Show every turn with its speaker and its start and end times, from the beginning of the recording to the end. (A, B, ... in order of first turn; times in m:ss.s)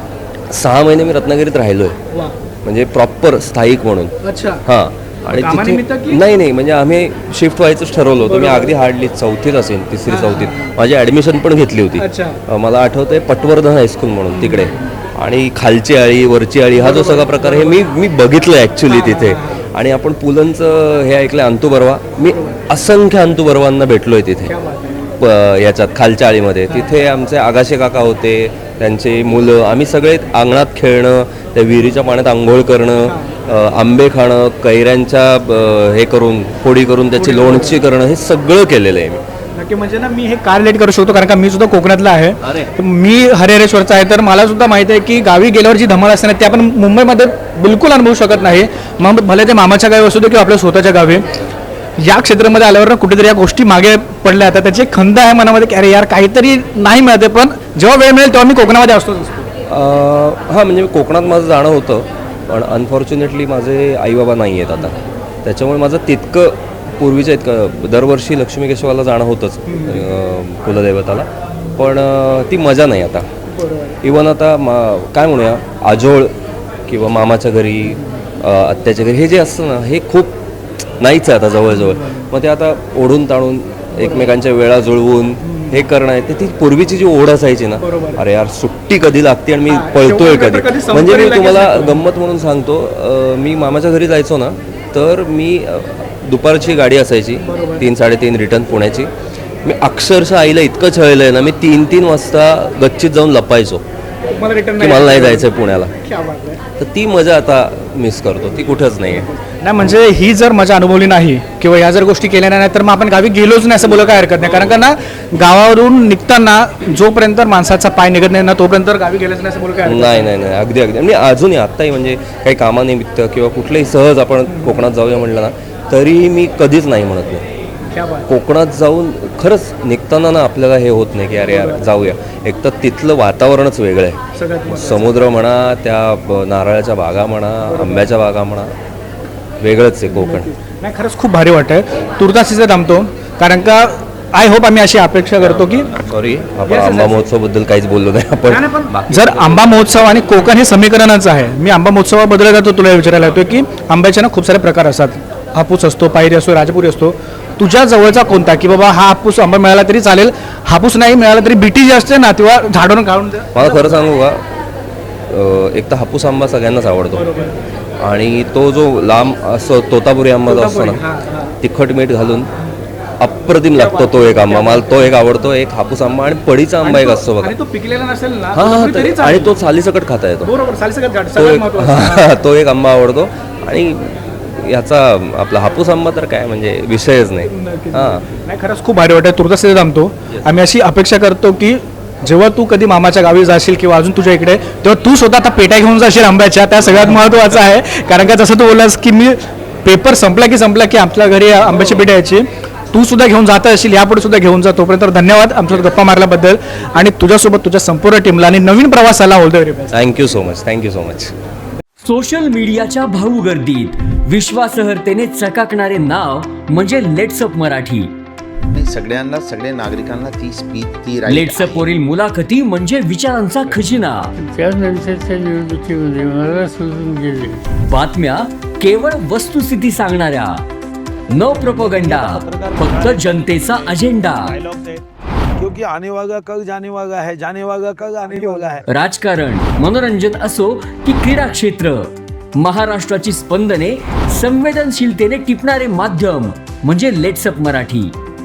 0:00.5-0:02.0 A
0:02.1-0:02.4 B
0:02.6-0:04.1 A
0:04.2-0:04.6 B
0:04.6-0:24.5 A
0:05.3-0:06.2 B
0:08.2-0:08.7 B
0:10.1-0:10.7 B
0:12.0-0:12.4 B
0:14.4-0:14.7 B
0:16.8-0:17.8 B
0:18.8-0:19.6 B
0:22.3-0:22.6 B
0:24.5-0:25.0 B
0:25.2-0:39.2 A
0:33.1-0:33.3 B
0:37.2-0:37.8 B
0:39.5-0:51.3 B
0:42.4-0:42.7 A
0:52.0-0:59.5 B
0:59.7-1:13.3 A
1:13.6-1:14.0 B
1:14.0-1:16.3 A
1:16.9-1:20.3 A
1:21.0-1:39.1 A
1:25.5-1:25.8 B
1:27.8-1:28.2 B
1:29.7-1:32.0 B
1:37.4-1:37.8 B
1:39.6-1:43.8 A
1:44.3-1:46.6 B
1:44.8-1:45.9 A
1:46.8-1:49.3 A
1:49.5-2:00.3 B
1:59.8-2:07.4 A
2:04.5-2:04.8 B
2:07.9-2:08.3 B
2:08.3-2:18.7 A
2:11.5-2:11.8 B
2:14.3-2:15.2 B
2:17.7-2:18.1 B
2:19.6-2:20.5 A
2:20.2-2:25.9 B
2:25.4-2:29.8 A
2:26.7-2:27.3 B
2:28.5-2:44.0 B
2:43.5-2:44.4 A
2:45.3-2:47.3 A
2:47.1-2:47.6 B
2:48.0-2:51.0 A
2:50.5-2:51.5 B
2:51.6-2:52.5 A
2:53.2-2:57.5 A
2:53.8-2:55.2 B
2:56.8-2:59.6 B
2:58.5-3:00.5 A
3:00.4-3:02.4 B
3:01.4-3:08.2 A
3:07.5-3:29.9 B
3:29.9-3:31.3 A
3:32.0-3:38.1 C
3:38.7-3:41.8 D
3:41.2-3:44.3 C
3:44.4-3:47.6 E
3:47.8-3:50.6 C
3:51.3-3:54.6 C
3:51.3-3:55.0 F
3:55.6-3:58.8 F
3:58.9-4:08.1 C